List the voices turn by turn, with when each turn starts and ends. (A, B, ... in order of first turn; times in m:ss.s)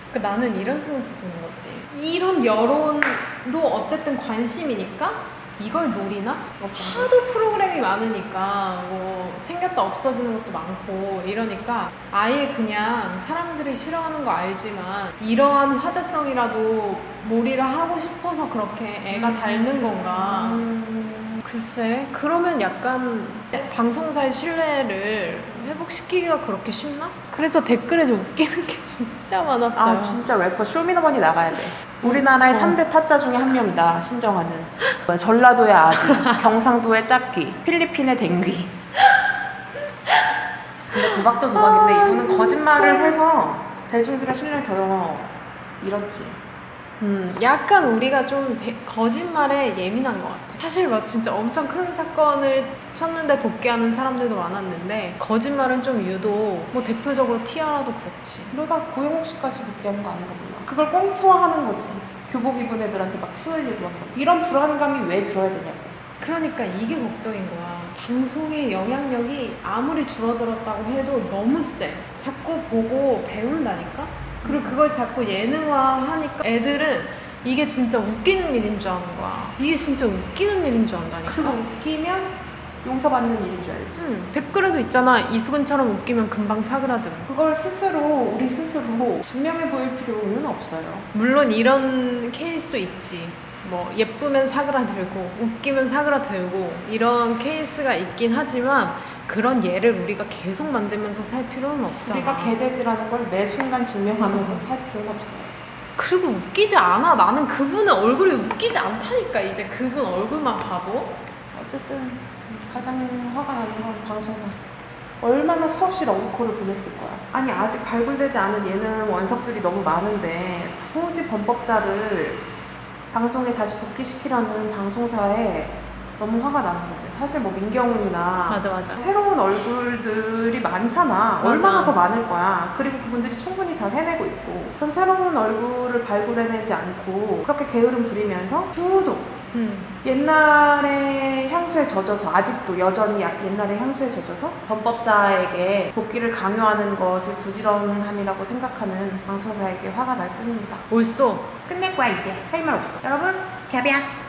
0:00.1-0:20.7 A
0:06.6-0:07.1 B
0:19.1-0:21.4 B
0:21.4-0:30.2 A
0:29.8-0:38.8 B
0:32.0-0:32.8 A
0:35.9-0:36.4 A
0:40.9-0:46.4 B
0:40.9-0:43.2 A
0:47.0-0:58.5 A
0:58.5-1:06.0 B
1:06.2-1:21.6 A
1:14.4-1:14.8 B
1:21.2-1:24.0 B
1:24.0-1:27.3 A
1:27.3-1:31.1 B
1:31.1-1:42.6 A
1:42.0-1:45.5 B
1:44.2-1:44.7 A
1:46.0-1:51.2 A
1:51.5-1:54.6 B
1:55.2-2:02.4 B
2:03.1-2:19.3 B
2:08.5-2:09.1 A
2:11.4-2:12.0 A
2:19.5-2:19.9 A
2:20.0-2:30.9 B
2:30.9-2:31.5 A
2:31.7-2:34.1 B